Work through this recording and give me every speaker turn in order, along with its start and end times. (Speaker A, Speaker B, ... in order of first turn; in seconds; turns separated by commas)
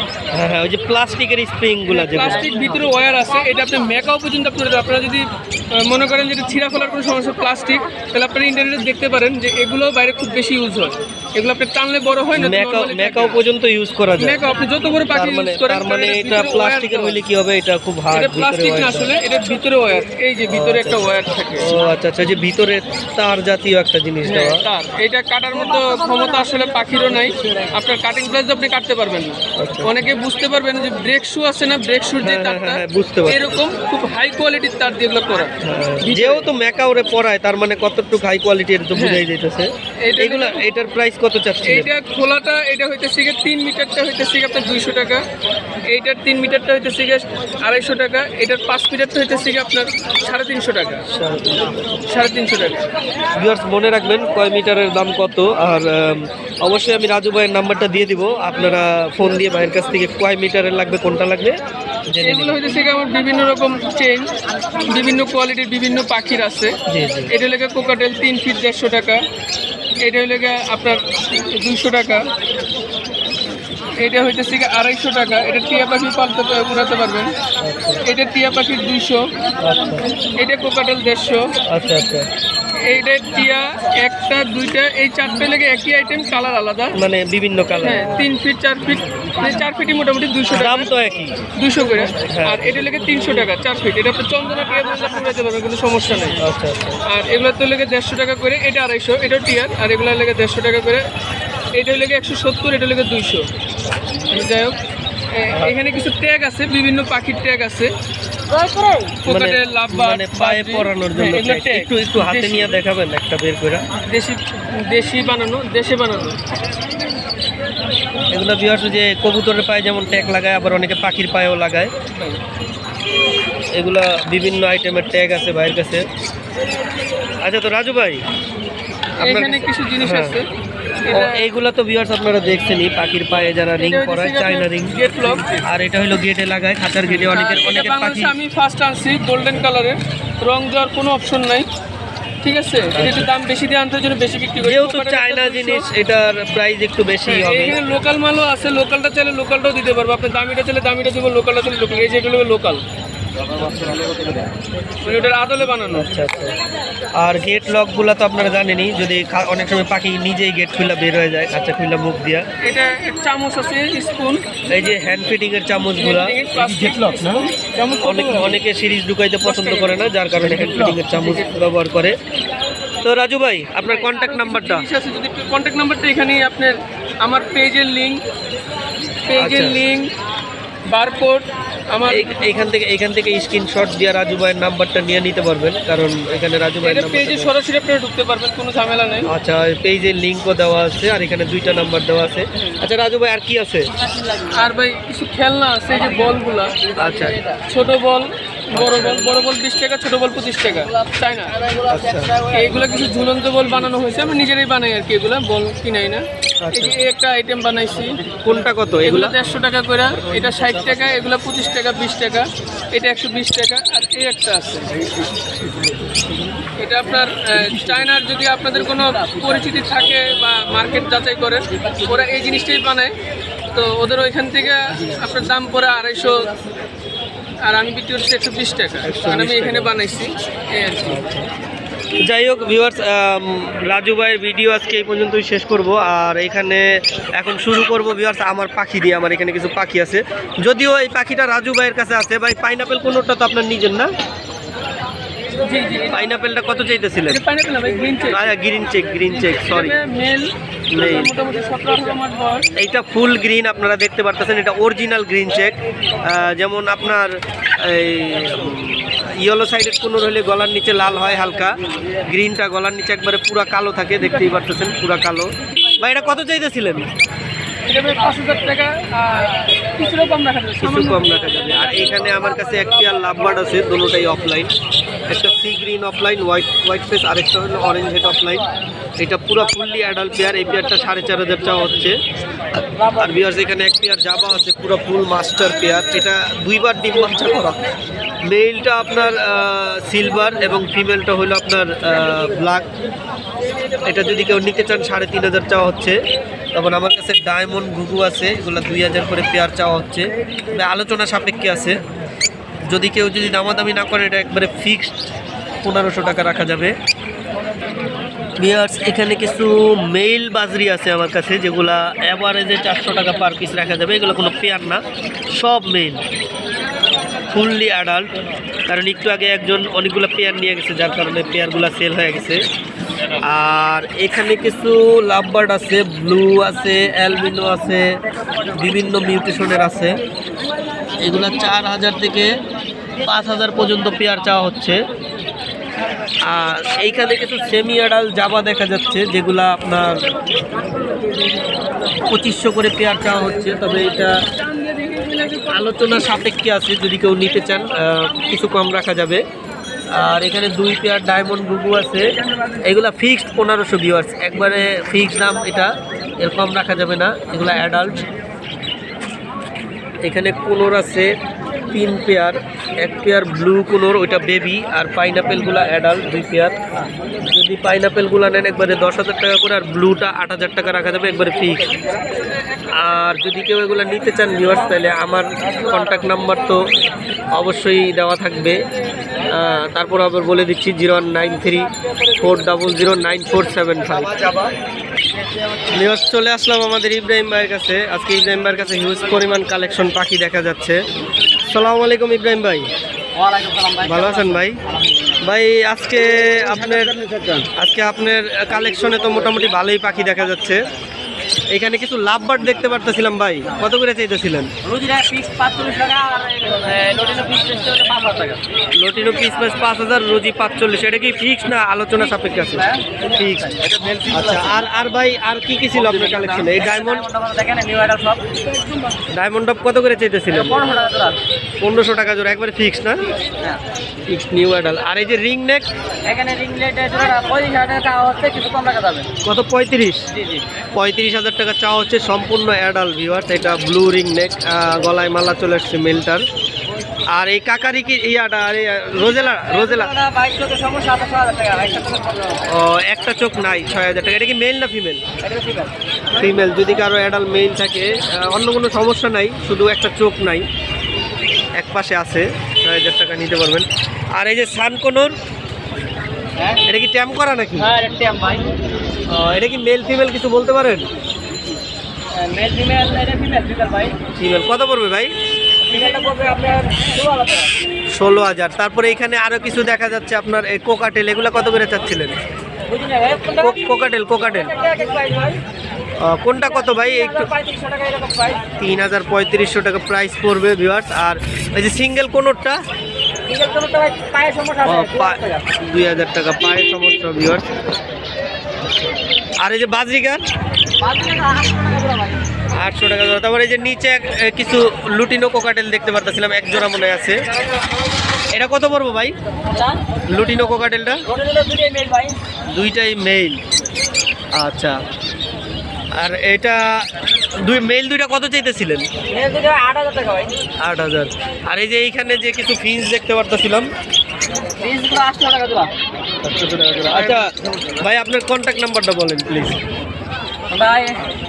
Speaker A: 0.3-2.4, Speaker B: 1.9-13.4, Speaker A: 12.3-14.4, Speaker B: 14.2-17.2, Speaker A: 15.1-19.1, Speaker B: 18.1-21.7, Speaker A: 20.5-24.6, Speaker B: 24.2-36.5, Speaker A: 29.6-29.9, Speaker A: 32.2-33.6, Speaker A: 35.6-41.9, Speaker B: 38.9-39.2, Speaker B: 40.0-40.6, Speaker B: 41.7-45.2, Speaker B: 45.9-51.0, Speaker A: 51.1-51.9, Speaker B: 52.0-52.9, Speaker A: 53.4-62.6, Speaker B: 62.2-64.3, Speaker B: 64.9-66.7, Speaker A: 66.9-67.3, Speaker B: 67.3-69.2, Speaker B: 70.0-72.2, Speaker B: 74.0-77.3, Speaker A: 77.6-78.0, Speaker B: 78.0-79.3, Speaker A: 79.6-80.0, Speaker B: 80.3-81.5, Speaker A: 81.7-82.3, Speaker B: 82.8-87.0, Speaker A: 86.9-88.2, Speaker B: 87.8-90.9, Speaker A: 90.5-91.3, Speaker B: 91.6-96.4, Speaker A: 92.3-92.7, Speaker A: 96.4-97.0, Speaker B: 97.1-101.1, Speaker B: 101.7-103.5, Speaker B: 104.3-104.8, Speaker B: 105.3-107.9, Speaker B: 108.6-112.8, Speaker A: 109.2-113.8, Speaker B: 114.1-116.4, Speaker A: 118.3-121.9, Speaker A: 123.7-126.1, Speaker A: 127.4-128.2, Speaker A: 129.2-130.4, Speaker B: 129.2-130.5, Speaker B: 131.1-131.4, Speaker A: 131.1-134.9, Speaker B: 133.8-135.7, Speaker A: 135.6-138.3, Speaker B: 137.1-141.7, Speaker B: 142.4-145.8, Speaker A: 142.9-143.3, Speaker A: 144.6-147.8, Speaker B: 147.2-152.8, Speaker C: 153.7-154.4, Speaker B: 155.0-156.1, Speaker A: 155.9-156.6, Speaker A: 157.2-162.4, Speaker B: 162.6-164.4, Speaker A: 164.7-166.4, Speaker B: 166.0-168.6, Speaker A: 168.0-172.2, Speaker B: 169.4-170.0, Speaker B: 170.6-171.4, Speaker A: 173.0-174.9, Speaker B: 173.8-178.2, Speaker B: 179.3-180.1, Speaker A: 179.4-179.9, Speaker B: 180.9-182.3, Speaker A: 182.1-187.5, Speaker B: 186.8-189.3, Speaker A: 189.2-193.9, Speaker B: 194.5-201.6, Speaker A: 197.0-197.4, Speaker A: 198.7-199.2, Speaker A: 201.8-202.4, Speaker B: 202.4-208.2, Speaker A: 206.6-207.0, Speaker A: 208.4-209.4, Speaker B: 209.0-215.1, Speaker B: 216.8-223.1, Speaker B: 223.7-226.5, Speaker B: 227.6-231.2, Speaker A: 229.0-229.9, Speaker A: 231.0-231.5, Speaker A: 232.2-244.1, Speaker B: 245.6-246.3, Speaker A: 246.1-247.4, Speaker B: 247.3-248.5, Speaker A: 248.3-249.9, Speaker B: 249.2-252.7, Speaker A: 250.9-251.3, Speaker A: 252.8-267.1, Speaker B: 267.9-271.3, Speaker A: 270.8-274.7, Speaker A: 275.3-278.6, Speaker A: 279.2-282.2, Speaker A: 283.0-287.8, Speaker A: 288.4-292.9, Speaker A: 294.0-296.2, Speaker A: 296.7-302.0, Speaker A: 302.9-305.2, Speaker A: 305.8-306.9, Speaker A: 308.6-316.2, Speaker A: 317.5-318.3, Speaker A: 318.9-322.6, Speaker A: 323.4-328.1, Speaker A: 328.6-330.2, Speaker A: 331.2-332.5, Speaker A: 333.2-335.0, Speaker A: 336.4-340.2, Speaker A: 342.3-344.3, Speaker B: 344.7-346.0, Speaker A: 345.6-349.4, Speaker A: 350.1-352.3, Speaker A: 352.8-358.2, Speaker A: 360.2-361.3, Speaker A: 361.9-366.8, Speaker A: 367.4-371.9, Speaker A: 372.9-376.8, Speaker A: 377.5-378.8, Speaker A: 379.4-384.7, Speaker A: 385.9-391.0, Speaker A: 391.6-392.9, Speaker C: 393.3-395.3, Speaker A: 394.0-394.8, Speaker A: 395.4-397.2, Speaker C: 397.3-397.6, Speaker A: 397.7-400.8, Speaker A: 401.7-404.7, Speaker C: 404.8-408.6, Speaker A: 408.9-413.7, Speaker C: 412.2-414.2, Speaker A: 414.3-417.2, Speaker C: 415.9-418.4, Speaker A: 419.3-420.8, Speaker C: 420.5-421.4, Speaker A: 421.8-423.2, Speaker A: 424.3-425.9, Speaker C: 426.2-429.3, Speaker A: 429.4-430.3, Speaker C: 430.3-430.6, Speaker A: 430.9-436.4, Speaker A: 437.3-440.1, Speaker C: 439.6-442.6, Speaker A: 442.7-445.2, Speaker C: 445.4-445.9, Speaker A: 446.3-450.7, Speaker A: 451.7-455.3, Speaker A: 456.9-457.9, Speaker C: 457.8-458.7, Speaker A: 459.3-461.1, Speaker C: 462.3-464.2, Speaker A: 464.3-465.3, Speaker C: 465.8-467.9, Speaker A: 468.1-472.4, Speaker C: 472.9-475.6, Speaker A: 473.6-474.7, Speaker A: 476.2-477.5, Speaker C: 476.8-478.6, Speaker A: 478.8-482.8, Speaker C: 483.4-485.6, Speaker A: 484.8-487.7, Speaker A: 489.6-490.4, Speaker C: 491.0-492.4, Speaker A: 492.8-497.4, Speaker A: 498.5-499.4, Speaker C: 499.7-500.0, Speaker A: 500.3-501.2, Speaker C: 501.3-502.4, Speaker A: 502.7-503.6, Speaker A: 504.5-505.0, Speaker A: 506.1-507.1, Speaker A: 507.6-509.1, Speaker C: 509.3-510.6, Speaker A: 510.8-513.9, Speaker C: 514.8-515.9, Speaker A: 516.4-517.5, Speaker A: 518.0-519.8, Speaker C: 520.7-521.2